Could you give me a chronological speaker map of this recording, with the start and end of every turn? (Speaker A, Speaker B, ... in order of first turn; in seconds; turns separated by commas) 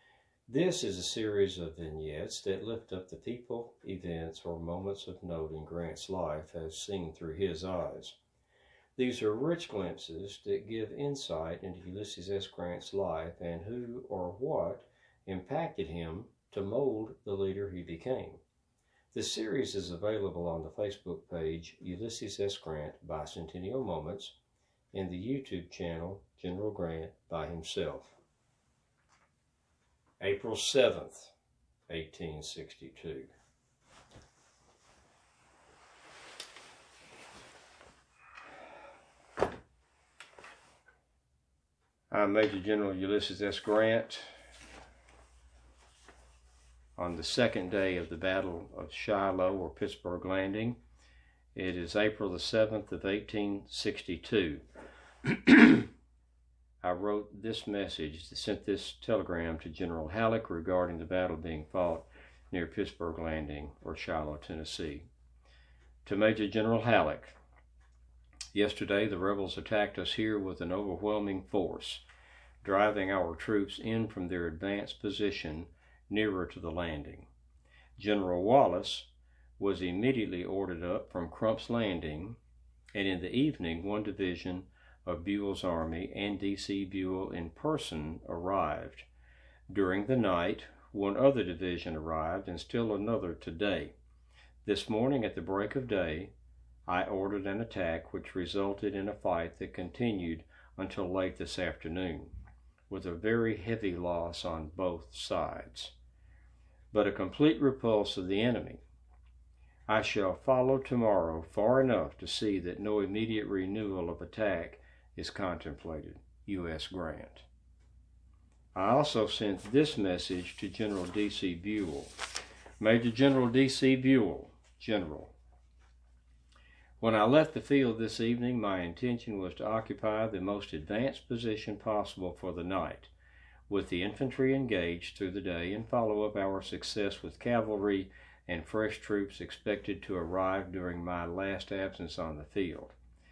Speaker A: 0.5-8.2, Speaker A: 9.0-18.4, Speaker A: 19.1-24.4, Speaker A: 24.9-28.1, Speaker A: 30.2-31.3, Speaker A: 31.9-33.3, Speaker A: 42.1-44.3, Speaker A: 47.0-50.8, Speaker A: 51.5-54.6, Speaker A: 55.2-55.9, Speaker A: 56.8-65.1, Speaker A: 66.0-67.4, Speaker A: 68.5-72.0, Speaker A: 72.6-77.3, Speaker A: 78.0-79.1, Speaker A: 79.6-82.4, Speaker A: 82.9-89.1, Speaker A: 89.7-93.9, Speaker A: 94.6-96.3, Speaker A: 96.9-102.3, Speaker A: 102.9-105.9, Speaker A: 106.9-108.8, Speaker A: 109.9-117.5, Speaker A: 118.8-122.1, Speaker A: 122.8-125.3, Speaker A: 127.0-133.1, Speaker A: 133.7-143.0